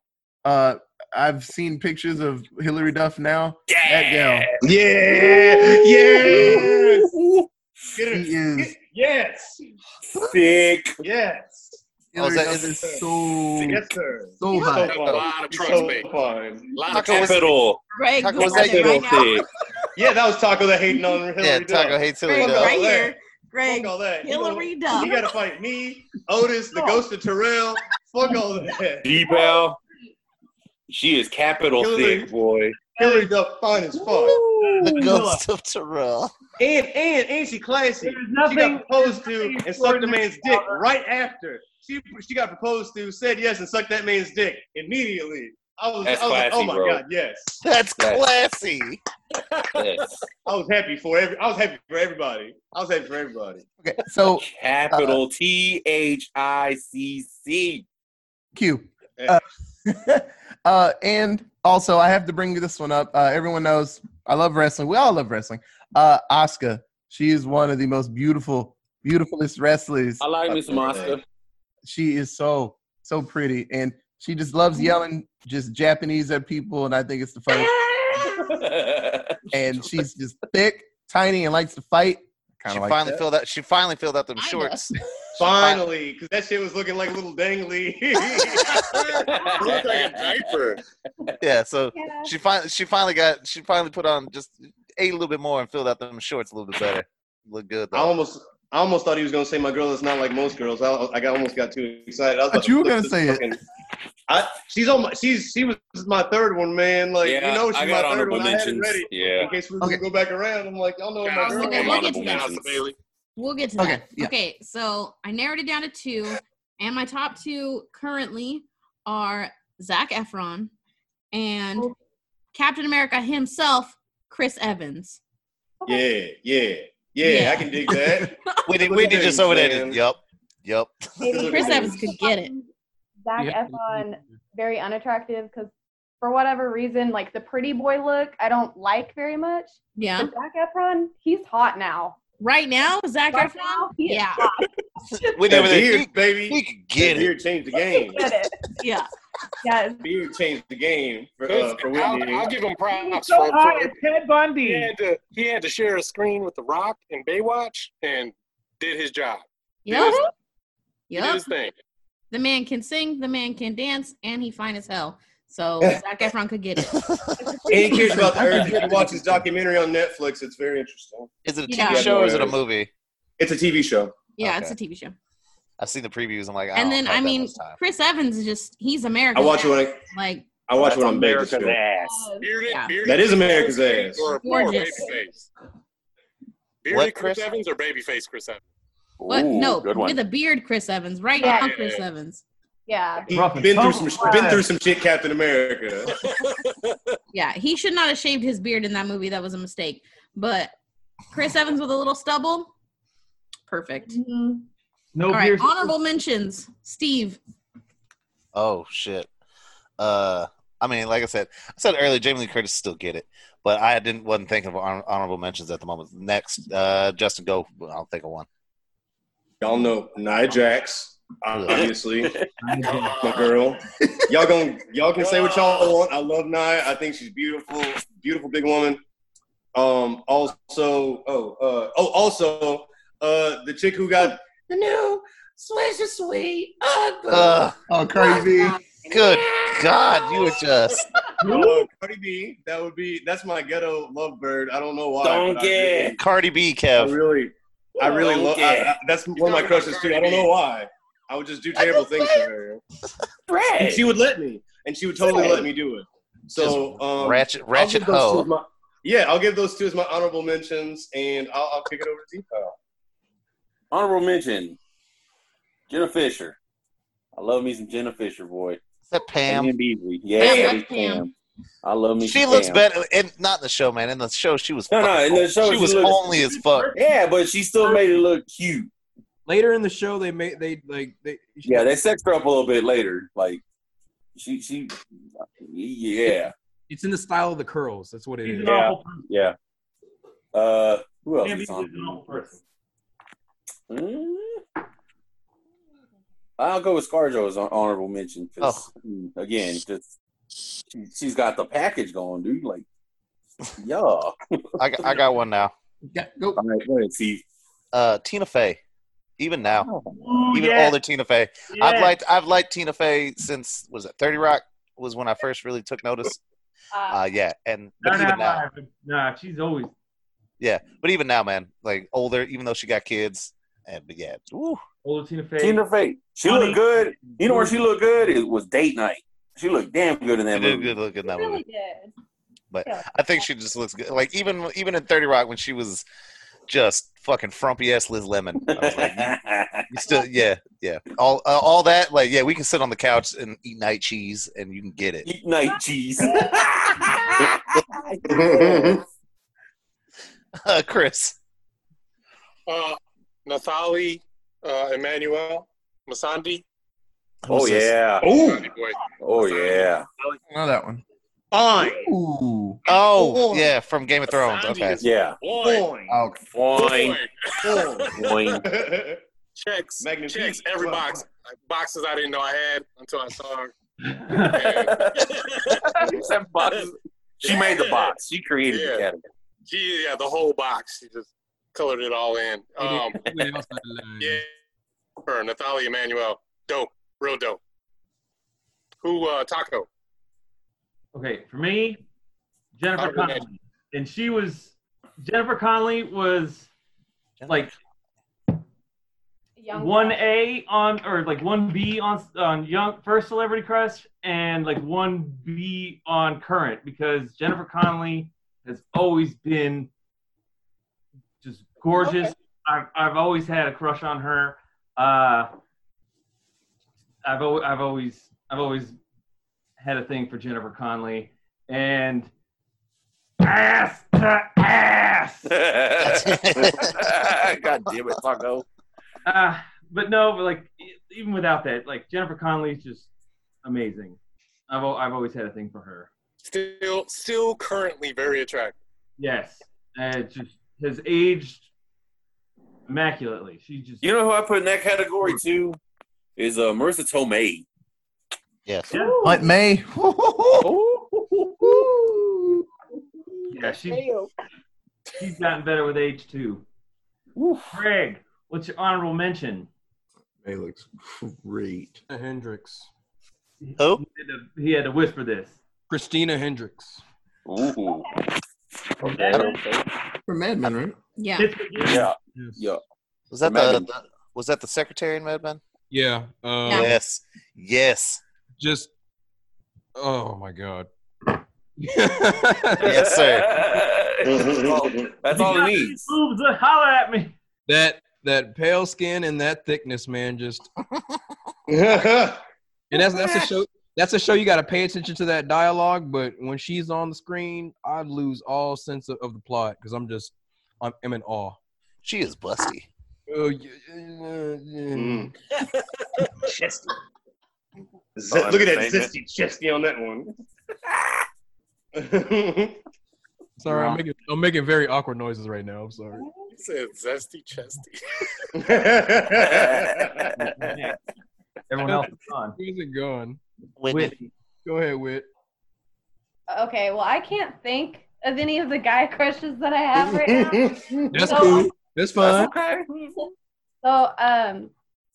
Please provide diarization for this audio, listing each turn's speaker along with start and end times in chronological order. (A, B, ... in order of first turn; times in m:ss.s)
0:00.4-0:04.5 A
0:03.7-0:07.4 B
0:04.6-0:07.1 C
0:06.2-0:06.7 A
0:07.9-0:09.6 C
0:08.1-0:08.7 A
0:10.1-0:11.0 B
0:11.0-0:11.8 C
0:12.1-0:15.0 A
0:12.2-0:12.8 D
0:13.6-0:16.8 C
0:14.8-0:16.1 E
0:16.7-0:17.5 E
0:16.9-0:17.4 D
0:16.9-0:17.8 B
0:17.9-0:19.4 F
0:18.2-0:19.1 D
0:18.4-0:19.4 B
0:19.9-0:29.2 C
0:21.4-0:22.8 D
0:22.2-0:25.2 F
0:26.7-0:27.0 G
0:29.0-0:29.8 B
0:30.9-0:32.8 B
0:31.8-0:32.3 C
0:32.9-0:34.4 C
0:33.0-0:33.3 H
0:34.3-0:34.9 B
0:34.3-0:35.4 H
0:34.8-0:36.3 D
0:36.6-0:47.6 C
0:38.0-0:40.8 H
0:46.0-0:47.0 B
0:47.6-0:49.0 D
0:48.0-0:48.2 B
0:49.7-0:50.2 B
0:50.4-0:53.6 C
0:53.8-0:55.2 A
0:54.4-0:57.8 B
0:58.5-1:10.2 A
1:10.2-1:11.2 B
1:10.5-1:11.2 C
1:11.8-1:17.7 A
1:17.5-1:19.4 B
1:19.5-1:23.2 A
1:22.7-1:25.8 D
1:24.4-1:24.9 F
1:25.4-1:29.0 C
1:28.8-1:30.8 E
1:29.2-1:30.6 B
1:31.4-1:38.1 D
1:31.9-1:32.3 G
1:37.9-1:43.6 C
1:42.5-1:43.5 A
1:44.3-1:52.0 C
1:47.2-1:49.5 B
1:51.2-1:53.0 E
1:51.4-1:52.5 F
1:51.6-1:52.8 B
1:53.4-2:00.7 F
1:53.8-1:54.3 A
2:01.3-2:01.9 F
2:02.5-2:05.2 F
2:05.8-2:06.1 G
2:05.8-2:10.0 C
2:07.2-2:08.2 F
2:08.7-2:11.2 D
2:11.2-2:12.6 G
2:11.2-2:12.1 C
2:11.4-2:12.5 F
2:13.2-2:22.2 G
2:13.4-2:14.4 I
2:19.9-2:20.3 F
2:22.4-2:24.4 F
2:23.3-2:25.7 G
2:25.2-2:27.3 D
2:25.5-2:28.3 C
2:27.7-2:28.7 G
2:28.8-2:29.1 F
2:29.6-2:30.1 G
2:30.0-2:32.5 C
2:31.4-2:33.9 E
2:32.9-2:34.9 H
2:34.6-2:40.2 E
2:39.8-2:40.3 F
2:41.1-2:41.5 F
2:41.1-2:41.7 E
2:42.3-2:47.0 F
2:46.9-2:47.3 D
2:47.4-2:48.7 G
2:47.7-2:52.6 C
2:48.0-2:49.4 A
2:51.4-2:52.9 D
2:51.7-2:52.1 F
2:53.4-2:54.3 C
2:54.4-2:55.1 F
2:54.4-2:54.7 D
2:55.8-2:57.8 D
2:56.7-3:00.5 F
2:59.3-3:00.0 C
3:00.6-3:01.9 C
3:00.8-3:02.3 B
3:02.0-3:02.5 G
3:02.4-3:05.4 E
3:02.6-3:03.0 F
3:03.0-3:04.3 C
3:04.3-3:05.2 F
3:06.8-3:08.6 E
3:06.9-3:07.5 D
3:09.2-3:10.2 B
3:09.3-3:12.4 F
3:11.4-3:11.7 G
3:11.4-3:12.0 E
3:12.9-3:13.3 G
3:13.3-3:16.2 C
3:13.3-3:14.6 H
3:14.1-3:14.6 G
3:16.1-3:17.0 E
3:17.3-3:20.7 F
3:21.3-3:22.7 F
3:23.7-3:24.2 F
3:24.0-3:24.6 G
3:25.1-3:25.9 H
3:25.3-3:27.4 F
3:28.5-3:29.3 D
3:30.0-3:38.4 D
3:39.6-3:42.3 C
3:41.5-3:41.9 D
3:41.7-3:42.5 B
3:42.6-3:43.2 H
3:42.8-3:43.6 E
3:43.2-3:49.0 C
3:45.2-3:45.9 E
3:49.7-3:57.6 C
3:57.3-3:57.8 D
3:57.9-3:58.8 A
3:58.4-3:58.9 G
3:59.1-4:01.0 D
4:01.4-4:06.2 C
4:01.5-4:01.7 H
4:05.2-4:06.2 B
4:06.2-4:07.2 D
4:07.0-4:12.8 C
4:08.0-4:09.0 B
4:09.4-4:10.5 E
4:13.5-4:14.1 B
4:13.8-4:22.7 C
4:15.3-4:15.7 B
4:16.5-4:18.5 D
4:23.9-4:24.8 B
4:25.9-4:26.6 B
4:27.3-4:28.8 B
4:29.1-4:29.7 D
4:29.5-4:31.3 B
4:30.4-4:31.3 F
4:30.4-4:30.8 C
4:31.8-4:32.8 B
4:32.2-4:36.9 D
4:34.9-4:36.2 B
4:35.7-4:37.0 H
4:36.9-4:38.9 B
4:39.4-4:41.9 I
4:41.6-4:43.6 B
4:44.4-4:45.0 B
4:45.6-4:46.5 B
4:46.9-4:48.8 I
4:48.4-4:49.2 H
4:48.6-4:49.6 B
4:50.5-4:52.2 B
4:51.4-4:52.6 H
4:53.9-4:54.6 B
4:56.6-5:00.1 B
5:00.9-5:02.8 B
5:03.8-5:05.2 B
5:04.8-5:05.7 D
5:06.1-5:06.6 A
5:06.6-5:07.4 B
5:07.9-5:08.8 D
5:09.4-5:09.9 D
5:09.8-5:10.1 B
5:10.1-5:11.0 H
5:10.5-5:16.4 D
5:11.7-5:12.1 H
5:16.9-5:17.2 G
5:17.1-5:18.6 D
5:18.0-5:19.9 H
5:20.6-5:24.8 D
5:25.0-5:25.8 H
5:25.6-5:31.0 B
5:26.4-5:27.7 H
5:30.5-5:31.6 D
5:31.2-5:32.1 G
5:32.7-5:36.0 D
5:32.8-5:33.4 G
5:36.7-5:39.4 D
5:38.6-5:39.9 B
5:39.9-5:45.3 D
5:45.2-5:49.0 B
5:46.4-5:47.1 G
5:48.2-5:49.0 C
5:50.6-5:51.4 D
5:52.7-5:56.6 E
5:57.4-5:57.9 D
5:57.5-5:58.3 B
5:58.2-5:58.7 C
5:58.2-5:59.9 E
5:59.2-6:00.0 B
6:00.5-6:01.0 A
6:01.5-6:02.1 C
6:01.8-6:02.8 A
6:02.8-6:05.0 D
6:02.9-6:03.7 C
6:04.3-6:05.9 E
6:05.0-6:05.4 B
6:05.5-6:06.2 C
6:06.1-6:06.4 A
6:06.5-6:07.2 B
6:06.7-6:08.5 E
6:07.6-6:09.2 C
6:08.1-6:08.6 B
6:09.6-6:13.7 E
6:10.0-6:11.1 C
6:14.1-6:14.8 H
6:14.4-6:15.9 E
6:14.6-6:19.2 B
6:17.4-6:18.1 E
6:18.7-6:19.0 E
6:19.6-6:23.2 E
6:22.8-6:24.4 I
6:24.2-6:24.5 E
6:25.2-6:27.6 E
6:29.0-6:29.9 E
6:31.1-6:32.0 H
6:32.7-6:36.7 H
6:33.0-6:33.4 E
6:37.4-6:37.7 D
6:37.5-6:37.7 H
6:39.6-6:40.2 G
6:39.7-6:49.9 H
6:51.4-6:55.5 H
6:52.0-6:52.3 B
6:57.2-6:59.0 H
6:59.8-7:02.3 H
7:03.4-7:05.5 H
7:05.5-7:08.6 B
7:06.0-7:07.0 D
7:09.2-7:13.1 H
7:13.6-7:14.2 H
7:14.7-7:16.1 H
7:16.4-7:18.8 E
7:19.2-7:21.7 H
7:22.9-7:24.0 H
7:24.0-7:25.8 B
7:26.4-7:27.6 B
7:28.6-7:28.9 D
7:28.9-7:29.3 H
7:29.2-7:30.7 A
7:30.6-7:31.9 B
7:31.6-7:32.6 A
7:33.5-7:34.0 H
7:33.5-7:34.3 B
7:35.1-7:36.6 H
7:37.4-7:37.7 B
7:37.7-7:39.7 H
7:40.4-7:42.0 A
7:42.1-7:42.9 I
7:43.6-7:45.6 H
7:43.8-7:44.0 D
7:45.9-7:47.0 I
7:47.4-7:48.1 B
7:47.8-7:48.1 G
7:49.0-7:49.8 B
7:49.0-7:49.6 H
7:50.3-7:51.0 A
7:51.2-7:51.5 F
7:51.4-7:52.1 H
7:51.8-7:52.8 B
7:53.3-7:55.6 D
7:53.4-7:53.9 B
7:55.9-7:56.9 I
7:56.7-7:58.2 D
7:58.6-7:58.9 I
8:00.0-8:00.9 I
8:01.8-8:02.8 I
8:02.8-8:06.1 B
8:02.8-8:03.5 D
8:04.2-8:05.1 C
8:05.3-8:07.3 H
8:07.6-8:10.7 I
8:11.7-8:12.4 C
8:12.9-8:21.6 I
8:22.0-8:22.9 D
8:23.3-8:25.3 I
8:24.9-8:25.3 C
8:26.4-8:26.9 C
8:28.1-8:30.3 C
8:28.3-8:29.1 B
8:31.9-8:32.8 C
8:33.6-8:36.2 I
8:33.7-8:34.0 B
8:36.5-8:38.4 E
8:38.5-8:40.3 C
8:39.4-8:40.8 B
8:40.6-8:41.0 H
8:41.7-8:42.6 H
8:41.8-8:42.0 I
8:42.6-8:43.4 I
8:43.8-8:44.1 D
8:43.9-8:44.3 H
8:44.6-8:45.3 I
8:46.5-8:51.7 G
8:50.0-8:51.6 C
8:51.1-8:52.5 I
8:52.2-8:53.1 B
8:53.8-8:54.7 G